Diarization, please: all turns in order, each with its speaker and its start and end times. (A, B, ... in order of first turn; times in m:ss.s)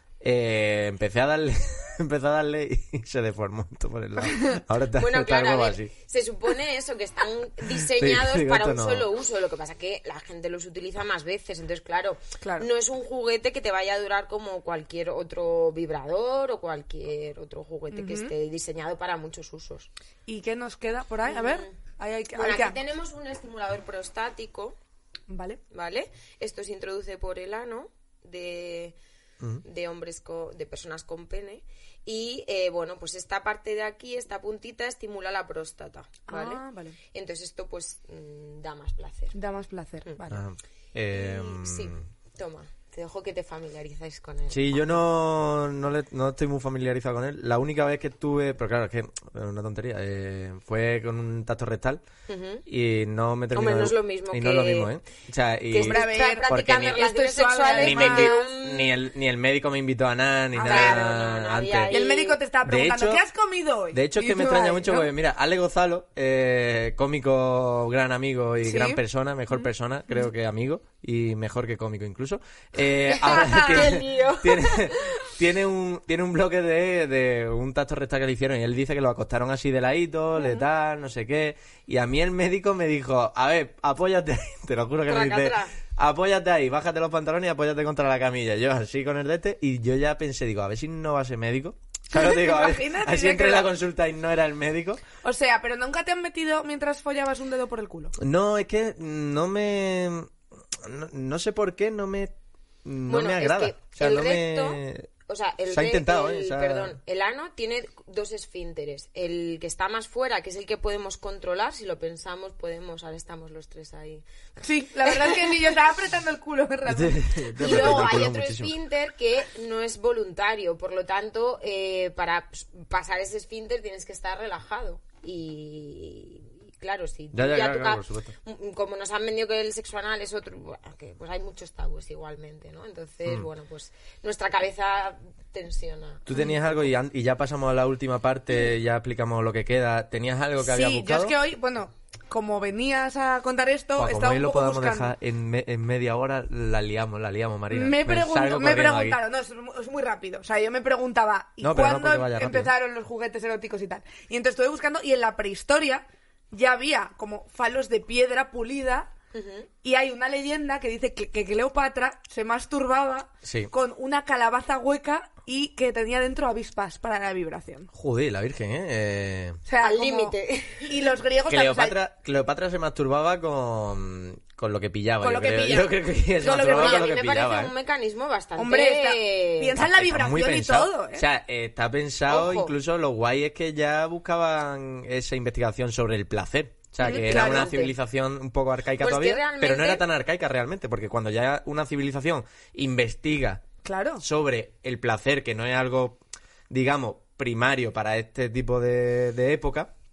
0:00.2-0:05.9 A
0:05.0-0:19.9 B
0:07.7-0:09.1 A
0:12.4-0:12.7 C
0:17.9-0:18.3 C
0:20.3-0:22.8 C
0:21.2-0:21.7 B
0:22.3-0:24.8 B
0:25.3-0:25.6 C
0:25.7-0:29.0 B
0:29.6-0:39.4 B
0:36.3-0:37.0 C
0:39.3-0:40.4 C
0:40.3-0:42.0 A
0:41.1-0:44.8 B
0:44.5-0:52.0 A
0:52.3-0:52.6 B
0:52.6-0:57.0 A
0:53.5-0:54.9 B
0:55.7-0:59.0 B
0:55.8-0:58.4 C
0:57.7-1:02.0 A
1:00.5-1:01.0 C
1:00.6-1:02.4 B
1:01.9-1:05.1 C
1:02.6-1:03.2 A
1:03.9-1:35.0 A
1:08.6-1:09.0 C
1:13.1-1:15.2 B
1:13.4-1:13.9 C
1:25.1-1:25.7 B
1:32.1-1:33.7 C
1:35.2-1:38.1 C
1:38.2-1:42.3 A
1:42.8-1:45.1 A
1:43.1-1:54.2 B
1:45.7-1:47.0 A
1:54.6-1:58.3 C
1:55.0-1:55.7 B
1:56.8-1:58.7 A
1:57.6-2:16.2 B
2:07.3-2:08.3 A
2:16.2-2:21.3 A
2:20.6-2:25.1 C
2:24.0-2:29.2 A
2:27.7-2:39.1 C
2:31.6-2:32.7 A
2:39.3-2:39.7 B
2:39.8-2:47.9 C
2:43.4-2:43.7 A
2:47.9-2:49.6 A
2:49.7-2:52.0 C
2:49.8-2:51.1 B
2:51.5-2:57.7 A
2:55.2-2:57.1 C
2:56.6-2:59.8 B
2:58.6-3:01.2 C
2:59.8-3:13.6 A
3:02.3-3:02.7 B
3:07.0-3:07.8 C
3:07.0-3:07.9 B
3:09.0-3:10.0 B
3:13.8-3:14.2 C
3:14.2-3:16.2 A
3:16.7-3:19.9 A